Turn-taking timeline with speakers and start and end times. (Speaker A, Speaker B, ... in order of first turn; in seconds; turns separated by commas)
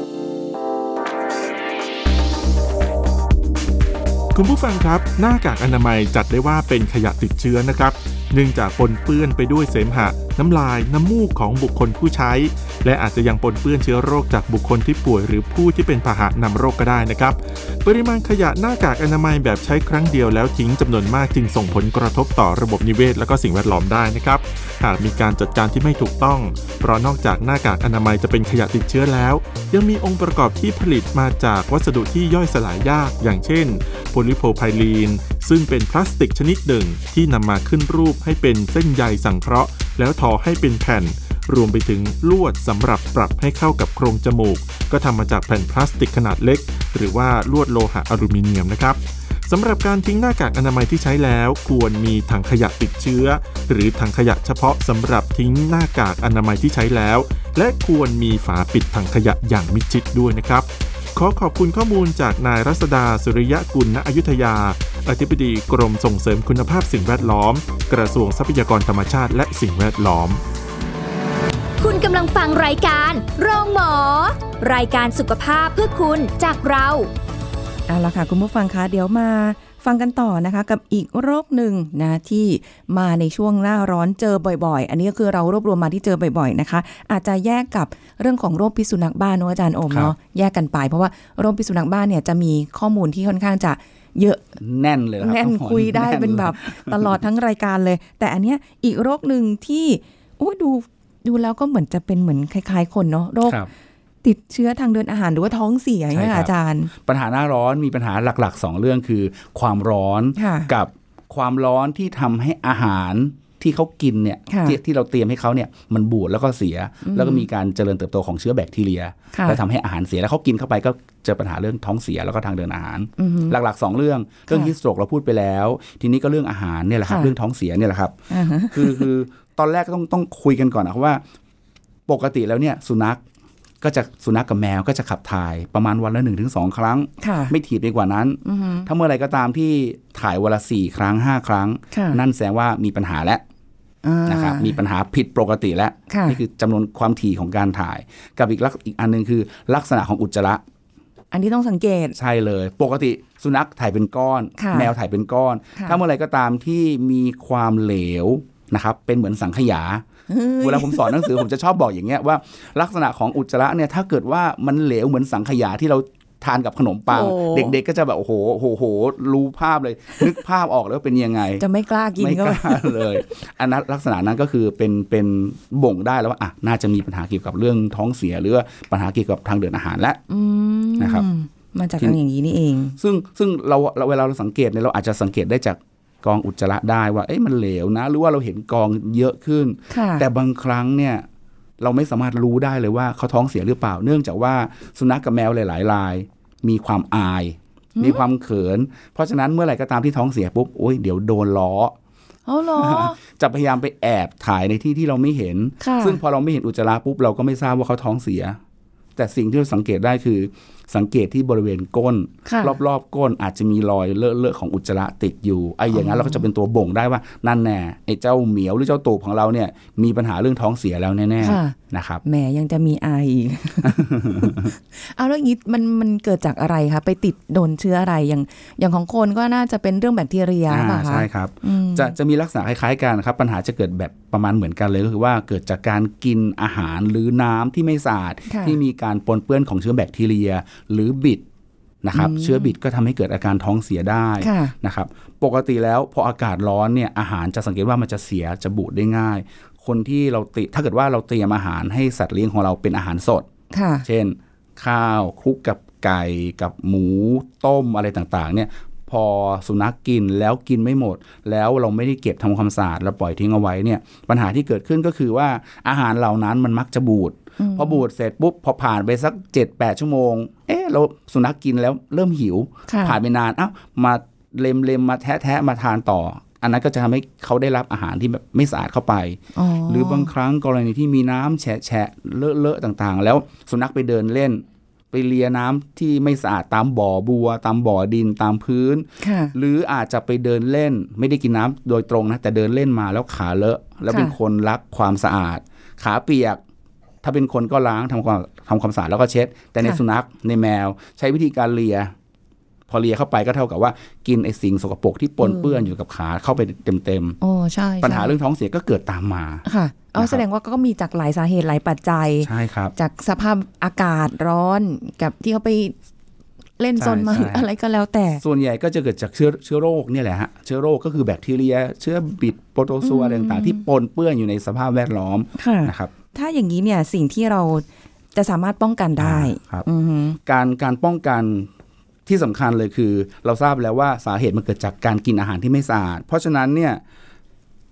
Speaker A: 4.3-70.4, Speaker B: 71.8-77.1, Speaker C: 77.9-94.4, Speaker D: 94.6-97.2, Speaker C: 95.2-103.6, Speaker D: 103.4-103.7, Speaker C: 104.2-106.9, Speaker D: 106.1-128.2, Speaker C: 110.3-110.7, Speaker C: 114.5-114.8, Speaker C: 117.0-117.5, Speaker C: 119.3-119.6, Speaker C: 123.2-123.5, Speaker C: 127.1-127.3, Speaker C: 128.3-129.1, Speaker D: 128.7-131.2, Speaker D: 132.1-133.2, Speaker D: 133.8-143.4, Speaker C: 137.2-137.5, Speaker C: 138.4-138.9, Speaker C: 141.9-142.2, Speaker C: 144.0-144.8, Speaker D: 144.2-150.6, Speaker C: 146.1-146.4, Speaker C: 151.3-152.2, Speaker D: 152.2-160.0, Speaker C: 154.6-154.9, Speaker C: 160.3-161.4, Speaker D: 160.6-171.6, Speaker C: 167.1-167.7, Speaker C: 171.6-173.2, Speaker D: 172.2-180.2, Speaker C: 180.3-183.0, Speaker D: 181.0-181.3, Speaker D: 183.0-191.2, Speaker C: 189.9-190.2, Speaker D: 191.8-201.9, Speaker C: 197.9-198.2, Speaker C: 202.5-203.2, Speaker D: 202.8-208.6, Speaker C: 205.8-206.2, Speaker D: 209.2-222.2, Speaker C: 212.4-212.8, Speaker C: 215.9-216.4, Speaker C: 221.4-232.1, Speaker D: 223.8-224.7, Speaker D: 230.7-241.4, Speaker C: 238.5-238.8, Speaker D: 242.0-253.5, Speaker C: 242.1-242.7, Speaker C: 244.4-244.7, Speaker C: 253.7-254.1, Speaker D: 254.0-296.6, Speaker C: 267.6-268.0, Speaker C: 272.9-273.2, Speaker C: 279.5-280.3, Speaker C: 289.2-289.5, Speaker C: 294.1-294.3, Speaker D: 297.2-302.1, Speaker D: 302.9-307.4, Speaker C: 305.4-305.9, Speaker C: 307.4-308.4, Speaker D: 308.0-309.6, Speaker C: 309.6-315.9, Speaker D: 310.1-310.4, Speaker D: 312.4-312.9, Speaker C: 316.8-318.4, Speaker D: 317.0-317.7, Speaker D: 318.4-326.1, Speaker C: 323.0-323.8, Speaker C: 325.6-330.4, Speaker D: 329.2-329.9, Speaker D: 330.4-331.7, Speaker D: 332.2-337.0